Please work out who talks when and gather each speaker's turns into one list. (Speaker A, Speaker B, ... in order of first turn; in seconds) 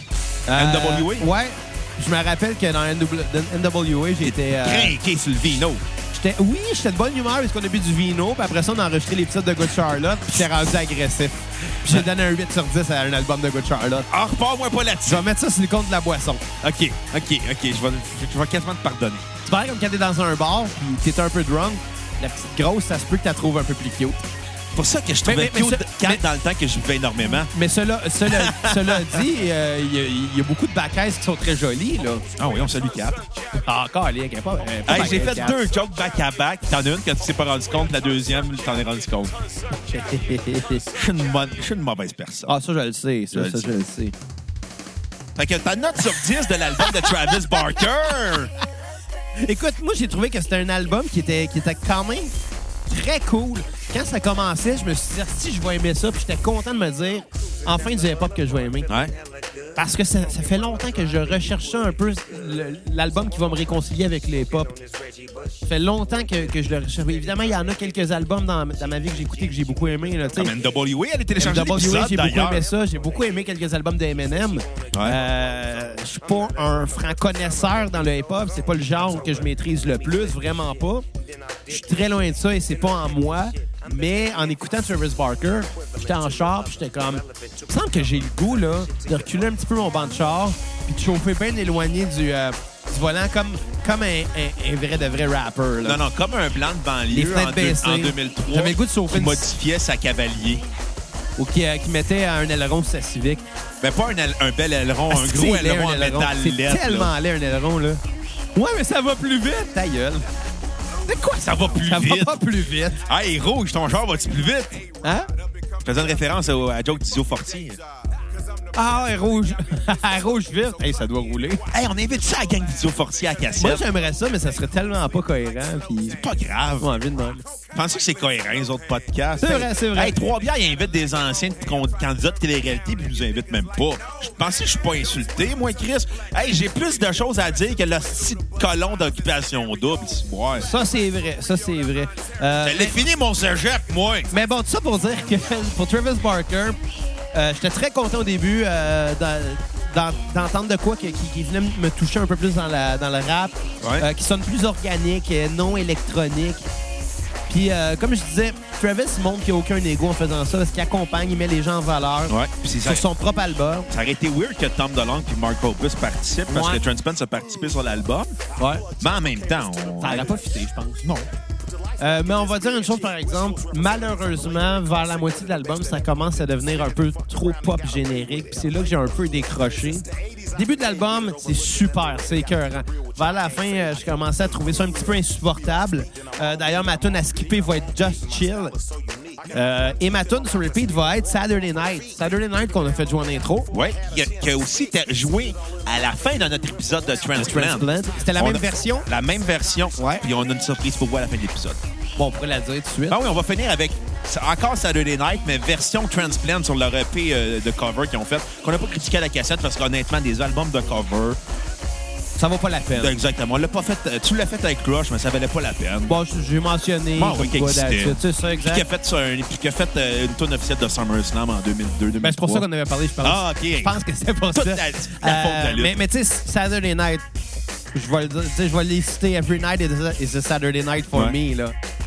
Speaker A: 0.5-5.0, 6.1-14.1, 15.1-16.4, 19.4-24.2, 25.2-26.2, 27.3-32.2, 33.6-35.6, 39.8-40.9, 42.5-44.1, 46.8-47.9, 49.4-52.3, 52.9-58.9, 59.8-64.7, 65.7-70.5, 71.4-81.0, 81.7-96.0, 97.1-99.5, 101.4-103.5, 105.1-108.0, 108.5-110.2, 111.5-113.0, 118.8-121.6, 123.6-126.2, 126.8-127.4, 129.4-130.2, 140.6-143.0, 144.3-146.8, 147.3-156.7, 157.5-163.9, 166.5-166.8, 168.6-168.9, 170.0-171.0, 172.0-188.8, 189.5-193.7, 197.4-199.1, 200.0-200.2, 202.2-203.2, 212.4-213.1, 216.1-218.8, 222.2-227.3, 227.9-231.8
Speaker B: 0.5-1.3, 4.2-5.8, 14.1-15.2, 16.6-19.3, 24.7-27.5, 28.2-29.2, 32.4-33.2, 34.9-39.4, 40.9-42.5, 43.3-43.7, 45.4-48.5, 58.9-59.1, 70.4-72.7, 74.9-75.2, 95.8-100.6, 103.8-107.1, 111.1-112.4, 113.0-114.8, 115.8-117.8, 121.7-123.8, 126.1-126.9, 127.7-140.7, 142.6-144.3, 153.8-154.1, 162.3-163.1, 163.9-168.3, 169.0-170.3, 193.7-201.8, 203.1-211.4, 212.9-216.2, 217.2-222.7, 223.2-223.9, 224.5-226.0